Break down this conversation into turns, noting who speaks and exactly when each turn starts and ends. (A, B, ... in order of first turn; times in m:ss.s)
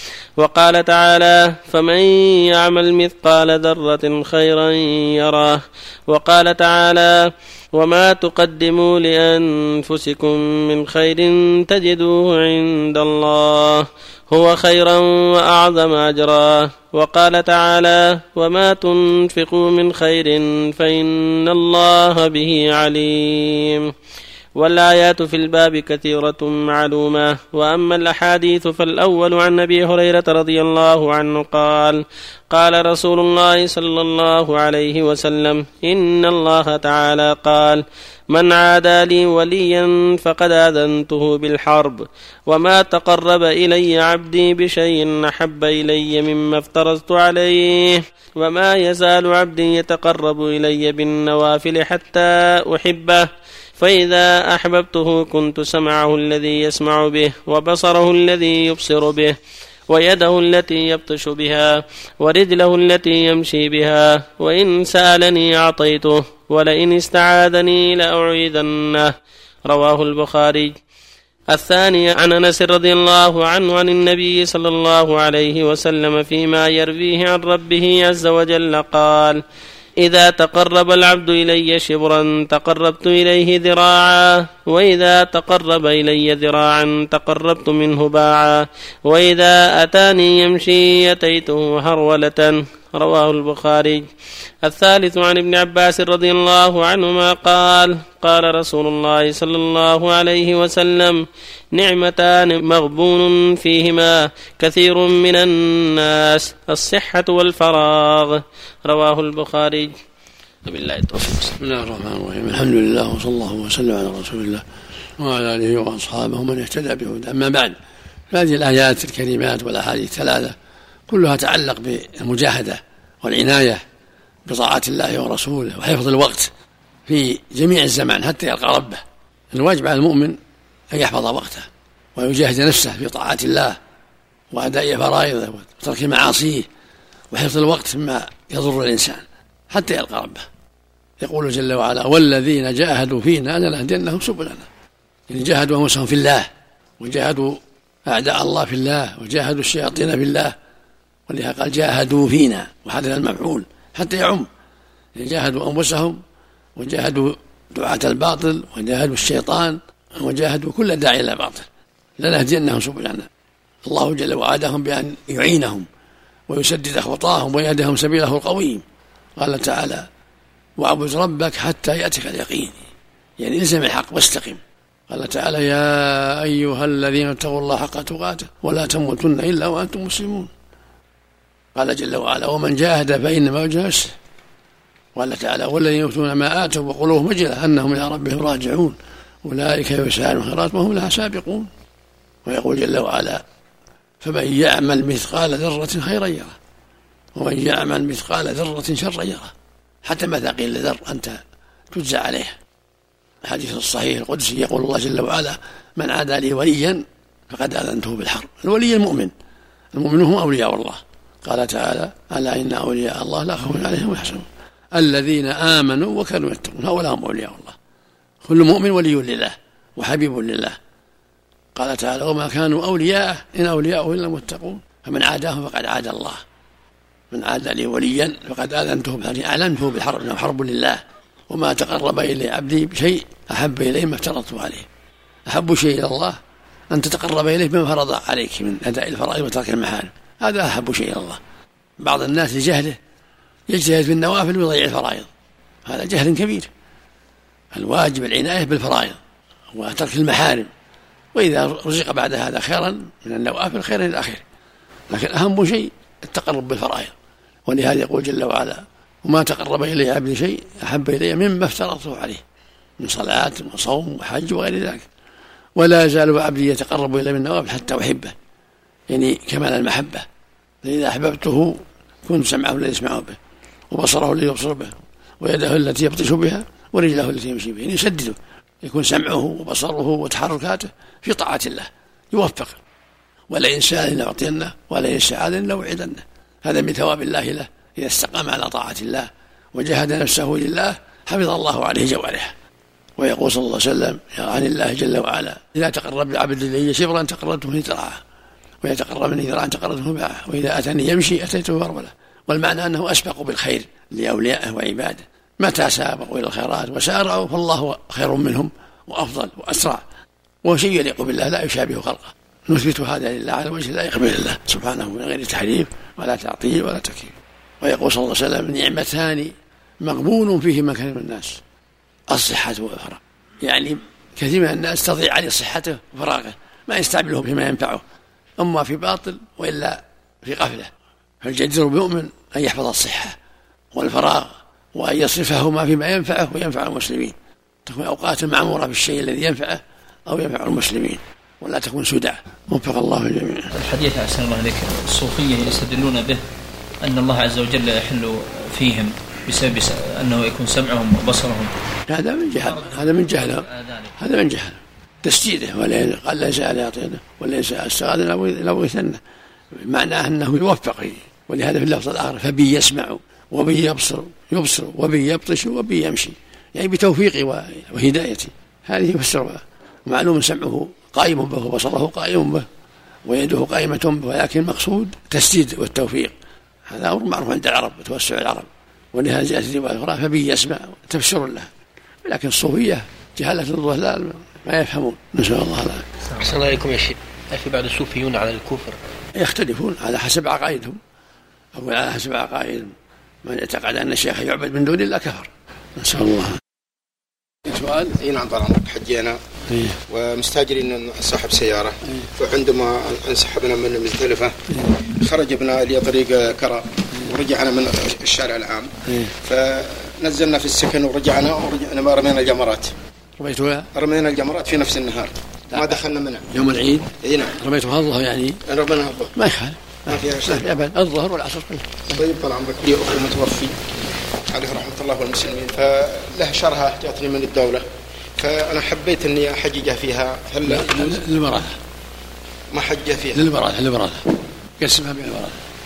0:00.4-0:23.9 A
0:24.6-0:53.3 A
0:53.8-0:59.4 A
0:59.9-1:09.1 A
1:09.7-1:10.8 A
1:11.5-1:19.4 A
1:20.0-1:34.1 A
1:34.6-1:49.9 A
1:50.6-1:51.5 A
1:51.6-1:54.6 B
1:55.2-1:57.8 B
1:58.3-2:00.6 B
2:01.1-2:03.8 B
2:04.5-2:06.5 B
2:07.1-2:10.4 B
2:10.9-2:13.8 B
2:14.5-2:16.7 B
2:17.3-2:20.5 B
2:21.2-2:24.7 B
2:25.3-2:30.6 B
2:31.3-2:34.5 B
2:35.2-2:36.2 B
2:36.8-2:41.7 B
2:42.2-2:43.3 B
2:43.9-2:45.9 B
2:46.5-2:48.8 B
2:49.4-2:50.1 B
2:50.8-2:52.9 B
2:53.4-3:00.5 B
3:01.8-3:04.1 B
3:05.2-3:11.7 B
3:12.4-3:13.4 B
3:14.2-3:16.6 B
3:17.4-3:19.5 B
3:20.0-3:21.4 B
3:21.9-3:22.6 B
3:23.4-3:29.3 B
3:29.9-3:37.8 B
3:38.4-3:40.8 B
3:41.8-3:46.4 B
3:47.3-3:54.9 B
3:55.5-3:56.4 B
3:56.9-4:01.4 B
4:02.0-4:03.0 B
4:03.7-4:05.3 B
4:05.9-4:06.7 B
4:07.7-4:09.2 B
4:09.7-4:10.7 B
4:11.3-4:14.4 B
4:15.1-4:17.1 B
4:17.7-4:22.4 B
4:23.0-4:25.1 B
4:25.8-4:28.3 B
4:29.1-4:30.3 B
4:30.8-4:33.4 B
4:33.9-4:42.8 B
4:43.5-4:52.5 B
4:53.2-4:58.2 B
4:58.8-5:10.0 B
5:10.6-5:21.6 B
5:22.3-5:28.0 B
5:28.6-5:30.9 B
5:31.4-5:33.4 B
5:33.9-5:43.7 B
5:43.8-5:46.4 C
5:47.0-5:51.7 C
5:52.1-5:59.2 B
5:52.6-5:54.1 C
5:59.7-6:12.7 B
6:13.3-6:16.3 B
6:16.9-6:21.7 B
6:22.2-6:26.1 B
6:26.4-6:29.0 D
6:29.4-6:31.0 B
6:31.8-6:32.9 B
6:33.4-6:36.6 B
6:37.7-6:38.2 B
6:38.2-6:39.4 E
6:39.7-6:40.0 B
6:40.1-6:52.9 E
6:49.1-6:49.3 B
6:53.4-6:53.9 B
6:53.9-6:56.5 E
6:55.7-6:58.6 B
6:57.2-6:57.6 E
6:58.7-6:59.3 E
6:59.3-7:02.2 B
7:00.1-7:00.7 E
7:02.1-7:03.8 E
7:04.5-7:07.8 E
7:08.4-7:11.2 E
7:10.7-7:11.8 B
7:12.7-7:13.5 E
7:13.3-7:14.3 B
7:14.8-7:15.6 B